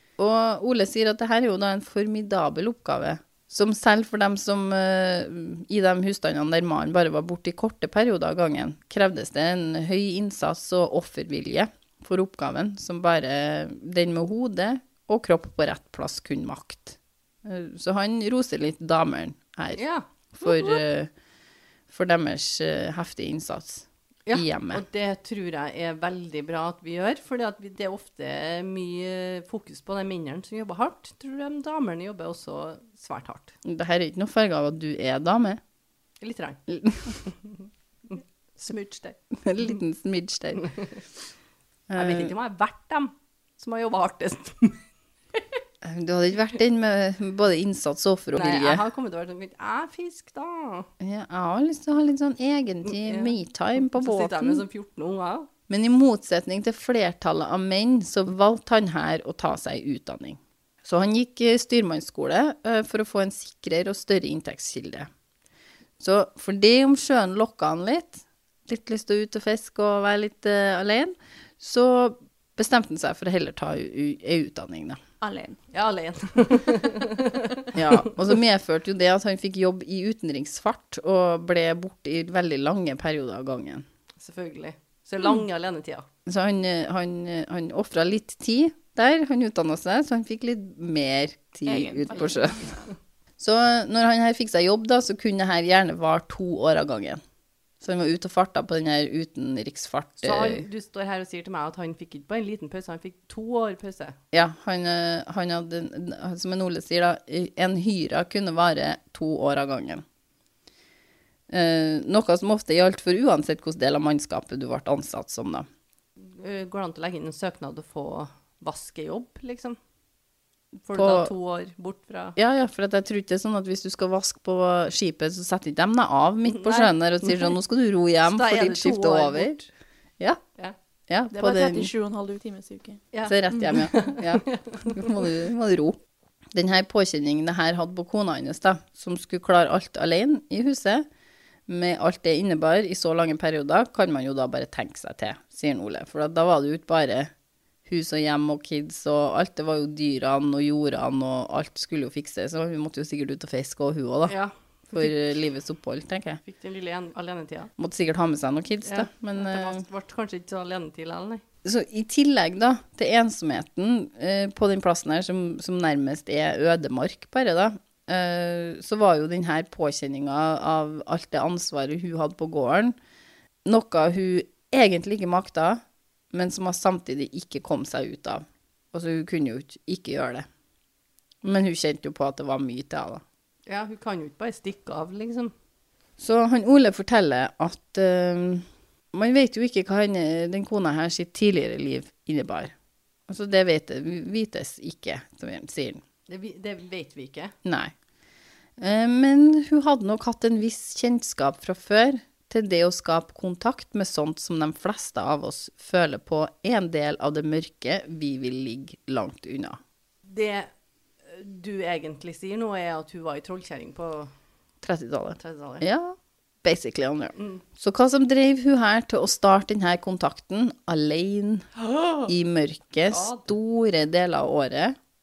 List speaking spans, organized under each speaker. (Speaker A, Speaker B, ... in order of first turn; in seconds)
Speaker A: 0.2-19.8, 20.3-21.1, 21.9-24.8, 33.6-35.6, 36.7-37.2, 39.3-40.7, 41.9-42.3, 45.8-48.8, 51.0-54.6, 55.7-65.1, 66.0-75.0, 77.8-83.9, 86.3-92.7, 93.4-97.2, 97.8-100.7, 104.3-110.0, 111.5-115.7, 120.9-121.3, 122.4-129.6, 131.1-131.9, 133.3-136.0, 136.5-141.1, 141.7-147.3, 147.9-154.3, 154.9-156.4, 157.8-159.8, 161.6-172.9, 173.7-175.8, 176.3-180.5, 181.4-183.2, 186.2-192.7, 193.3-196.0, 197.6-197.9, 198.8-209.8, 214.8-221.7, 222.2-225.0
Speaker B: 19.7-20.8, 24.3-33.6, 36.2-36.6, 37.2-39.2, 40.6-41.0, 42.0-44.8, 48.3-50.9, 52.9-55.5, 75.7-78.2, 84.2-86.1, 100.2-104.2, 116.3-119.8, 120.9-122.4, 126.5-127.5, 128.2-129.7, 133.1-135.2, 154.3-155.1, 156.4-157.7, 158.8-161.4, 183.7-185.5, 196.3-197.6, 210.3-210.7, 211.2-214.3, 215.4-215.8, 217.4-217.6, 223.1-223.5
Speaker C: 75.2-75.6, 91.7-92.8, 131.3-133.0